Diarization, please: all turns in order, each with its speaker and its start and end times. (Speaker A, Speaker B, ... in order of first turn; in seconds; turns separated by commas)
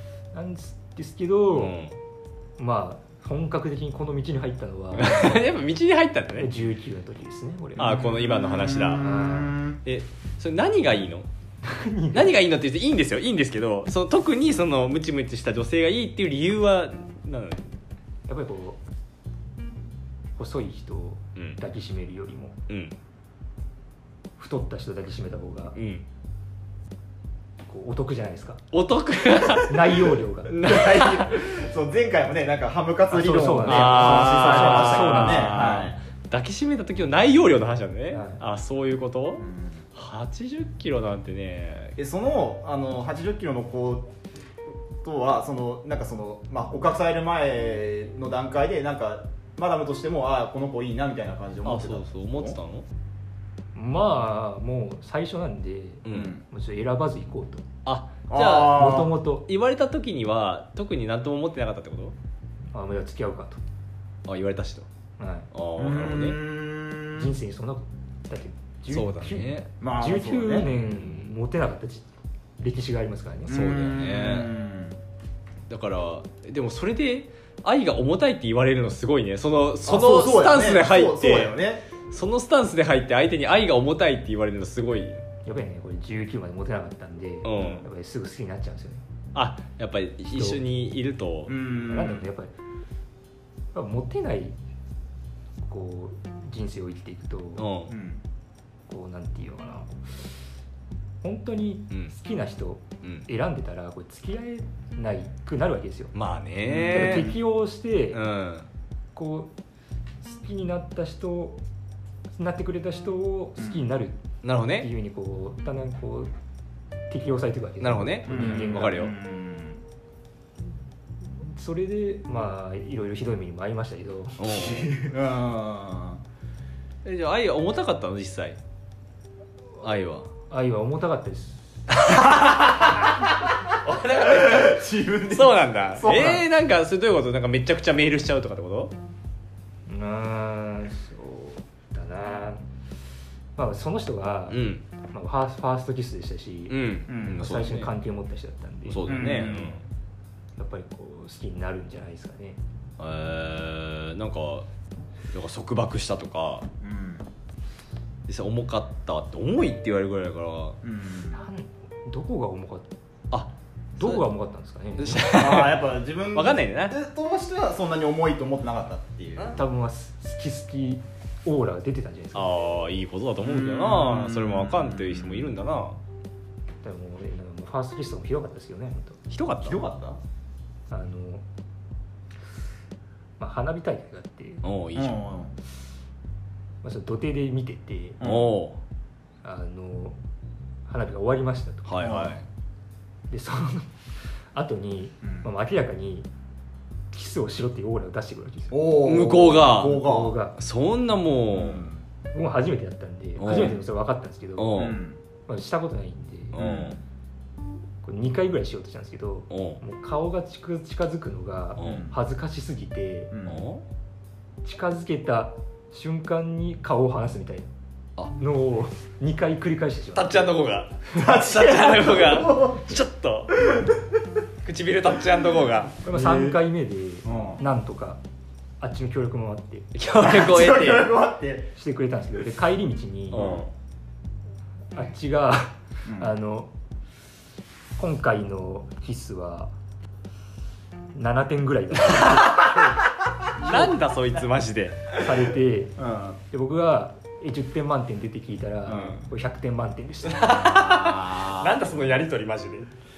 Speaker A: 0.3-1.8, Speaker B: 1.5-1.9, Speaker A: 2.6-5.5, Speaker B: 4.9-6.5, Speaker A: 6.4-8.0, Speaker B: 7.8-9.2, Speaker C: 7.8-9.8, Speaker A: 8.9-9.6, Speaker B: 9.8-11.3, Speaker A: 11.6-12.4, Speaker B: 12.1-17.6, Speaker A: 18.3-18.8, Speaker A: 20.4-22.6, Speaker B: 22.7-22.9, Speaker A: 24.4-25.8, Speaker B: 25.7-26.1, Speaker A: 27.7-28.6, Speaker B: 28.7-31.3, Speaker A: 29.6-30.5, Speaker C: 30.6-36.0, Speaker A: 33.1-35.6, Speaker B: 33.6-42.0, Speaker A: 38.1-38.4, Speaker C: 39.4-39.8, Speaker C: 42.0-44.1, Speaker C: 45.0-52.6, Speaker B: 51.6-52.9, Speaker A: 53.7-57.6, Speaker B: 56.0-56.3, Speaker C: 56.1-56.4, Speaker B: 57.9-62.1, Speaker C: 58.3-59.1, Speaker A: 58.6-59.4, Speaker A: 62.7-63.6, Speaker B: 64.2-64.9, Speaker A: 65.2-65.5, Speaker B: 65.5-66.4, Speaker C: 65.8-67.3, Speaker A: 67.2-72.0, Speaker B: 68.9-69.7, Speaker C: 69.8-70.7, Speaker B: 70.9-71.3, Speaker A: 72.6-73.6, Speaker C: 73.5-75.0, Speaker B: 73.5-74.5, Speaker B: 75.7-81.6, Speaker C: 79.8-81.8, Speaker B: 82.1-85.2, Speaker A: 85.5-89.0, Speaker B: 87.4-87.8, Speaker B: 89.3-91.5, Speaker A: 90.3-90.6, Speaker C: 91.5-92.2, Speaker A: 91.9-92.5, Speaker A: 93.7-94.6, Speaker A: 95.6-97.7, Speaker B: 97.6-97.9, Speaker C: 97.9-98.2, Speaker A: 98.9-100.0, Speaker A: 101.2-106.1, Speaker B: 106.1-107.3, Speaker C: 106.6-107.3, Speaker A: 106.9-108.2, Speaker B: 108.1-108.7, Speaker A: 109.2-109.5, Speaker A: 110.2-111.6, Speaker A: 112.3-114.2, Speaker C: 113.6-113.9, Speaker B: 114.4-114.9, Speaker A: 114.8-116.3, Speaker A: 117.1-119.1, Speaker B: 117.8-119.1, Speaker C: 118.3-119.8, Speaker A: 121.4-124.4, Speaker B: 124.4-124.9, Speaker C: 124.4-126.2, Speaker B: 127.0-128.6, Speaker B: 129.8-130.3, Speaker A: 130.5-131.7, Speaker B: 132.1-133.1, Speaker B: 133.7-138.9, Speaker C: 134.2-136.4, Speaker A: 139.9-142.6, Speaker A: 143.6-149.2, Speaker B: 144.5-144.8, Speaker B: 146.7-147.9, Speaker C: 147.1-147.5, Speaker B: 148.9-149.8, Speaker C: 149.1-149.8, Speaker A: 150.6-152.6, Speaker B: 153.0-154.7, Speaker B: 155.3-156.7, Speaker C: 156.8-157.3, Speaker B: 158.3-160.8, Speaker C: 160.8-161.4, Speaker A: 161.3-162.9, Speaker B: 163.3-164.2, Speaker A: 164.0-165.3, Speaker B: 165.0-166.9, Speaker C: 165.3-169.6, Speaker A: 169.6-172.6, Speaker B: 172.3-176.0, Speaker C: 173.4-175.6, Speaker A: 176.8-179.2, Speaker B: 179.3-179.8, Speaker C: 179.6-180.2, Speaker A: 180.9-181.4, Speaker A: 183.4-184.6, Speaker B: 184.6-185.2, Speaker C: 184.9-185.6, Speaker A: 186.8-188.2, Speaker C: 188.2-188.6, Speaker B: 188.2-188.8, Speaker A: 189.4-190.2, Speaker A: 190.9-192.1, Speaker B: 191.9-192.4, Speaker C: 192.0-192.4, Speaker A: 193.3-193.9, Speaker A: 194.5-196.3, Speaker A: 197.1-198.8, Speaker C: 198.7-200.4, Speaker B: 199.0-201.9, Speaker A: 199.9-200.6, Speaker C: 201.5-202.0, Speaker A: 202.3-204.9, Speaker B: 203.4-203.8, Speaker C: 203.4-203.8, Speaker B: 204.6-205.0, Speaker C: 204.7-205.2, Speaker A: 205.5-206.6, Speaker B: 206.5-207.0, Speaker C: 206.6-207.0, Speaker A: 208.0-213.3, Speaker B: 209.5-209.8, Speaker B: 211.8-212.1, Speaker C: 211.8-212.1, Speaker C: 213.3-213.7, Speaker B: 213.4-213.8, Speaker A: 214.6-217.7, Speaker A: 218.3-220.6, Speaker B: 220.1-223.6, Speaker C: 221.1-222.8, Speaker C: 223.6-224.0, Speaker B: 224.6-225.9, Speaker A: 226.0-228.2, Speaker C: 226.1-226.6, Speaker C: 227.2-227.6, Speaker A: 228.8-229.9, Speaker B: 229.9-231.1, Speaker C: 230.2-231.7, Speaker A: 231.7-233.6, Speaker B: 233.3-233.7, Speaker C: 233.3-233.7, Speaker A: 234.9-236.7, Speaker C: 236.1-236.3, Speaker A: 238.0-239.7, Speaker A: 241.1-242.9, Speaker B: 242.1-242.9, Speaker B: 243.6-245.0, Speaker A: 243.6-243.9, Speaker A: 245.2-246.0, Speaker C: 246.0-246.4, Speaker A: 246.5-250.7, Speaker C: 248.9-249.2, Speaker B: 250.3-252.9, Speaker C: 250.6-251.9